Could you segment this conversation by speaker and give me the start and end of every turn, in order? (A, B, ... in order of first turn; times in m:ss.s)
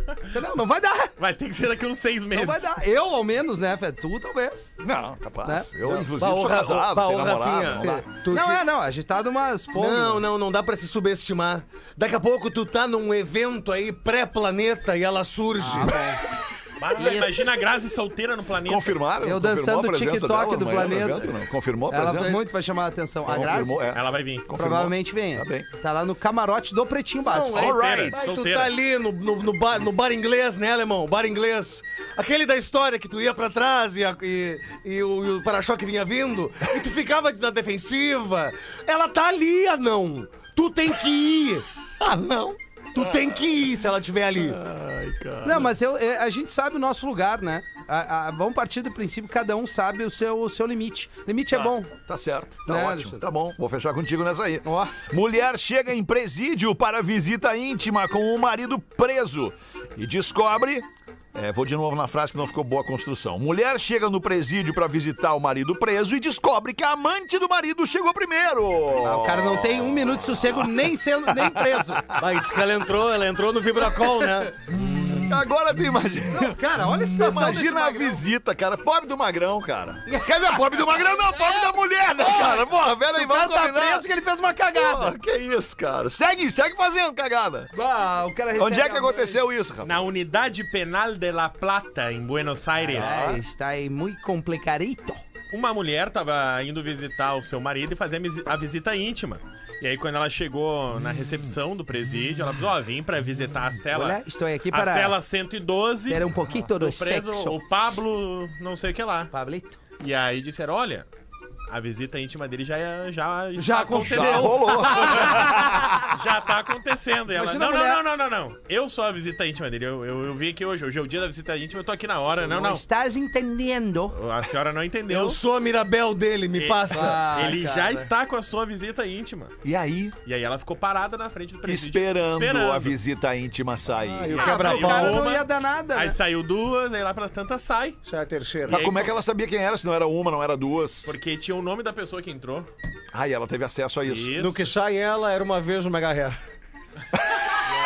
0:00.3-0:01.1 A
0:01.2-0:02.8 B
0:02.3-0:04.7 A
0:04.8-0:08.0 C
0:05.4-0:06.0 A
0:05.9-0:08.6 D
0:07.8-0:10.2 A
0:09.8-0:16.0 D
0:15.6-0:16.2 A
0:16.8-0:19.0 B
0:18.6-0:22.4 C
0:19.2-0:21.3 A
0:21.9-0:23.8 A
0:23.2-0:25.7 C
0:23.9-0:24.5 B
0:24.5-0:27.6 A
0:27.2-0:41.6 D
0:27.3-0:28.7 B
0:27.5-0:28.4 C
0:42.0-0:43.5 C
0:42.9-0:44.6 D
0:44.4-0:45.7 C
0:45.4-0:51.9 A
0:51.6-1:12.4 C
0:52.7-0:53.2 A
0:54.6-0:54.9 A
1:09.0-1:12.0 A
1:12.2-1:14.6 D
1:14.7-1:24.1 C
1:16.3-1:18.2 A
1:20.0-1:25.1 A
1:24.7-1:27.7 C
1:27.7-1:29.4 A
1:28.5-1:30.1 C
1:29.8-1:33.1 B
1:32.8-1:35.2 A
1:32.9-1:33.4 C
1:35.5-1:49.3 B
1:43.9-1:45.2 A
1:46.1-1:47.6 A
1:49.3-1:49.8 A
1:50.0-1:51.1 B
1:51.7-2:02.8 B
1:53.6-1:56.1 C
1:53.6-1:55.5 A
1:57.3-1:58.0 A
2:02.4-2:04.2 A
2:04.1-2:05.4 B
2:05.1-2:07.3 D
2:06.5-2:09.5 B
2:06.9-2:08.1 A
2:09.6-2:10.2 C
2:10.2-2:13.0 B
2:11.6-2:14.6 C
2:14.0-2:15.3 D
2:14.3-2:18.0 B
2:14.4-2:16.2 A
2:18.0-2:18.8 D
2:18.6-2:19.1 B
2:18.7-2:21.2 C
2:21.0-2:22.7 B
2:23.1-2:24.5 C
2:24.0-2:24.6 B
2:24.4-2:26.4 D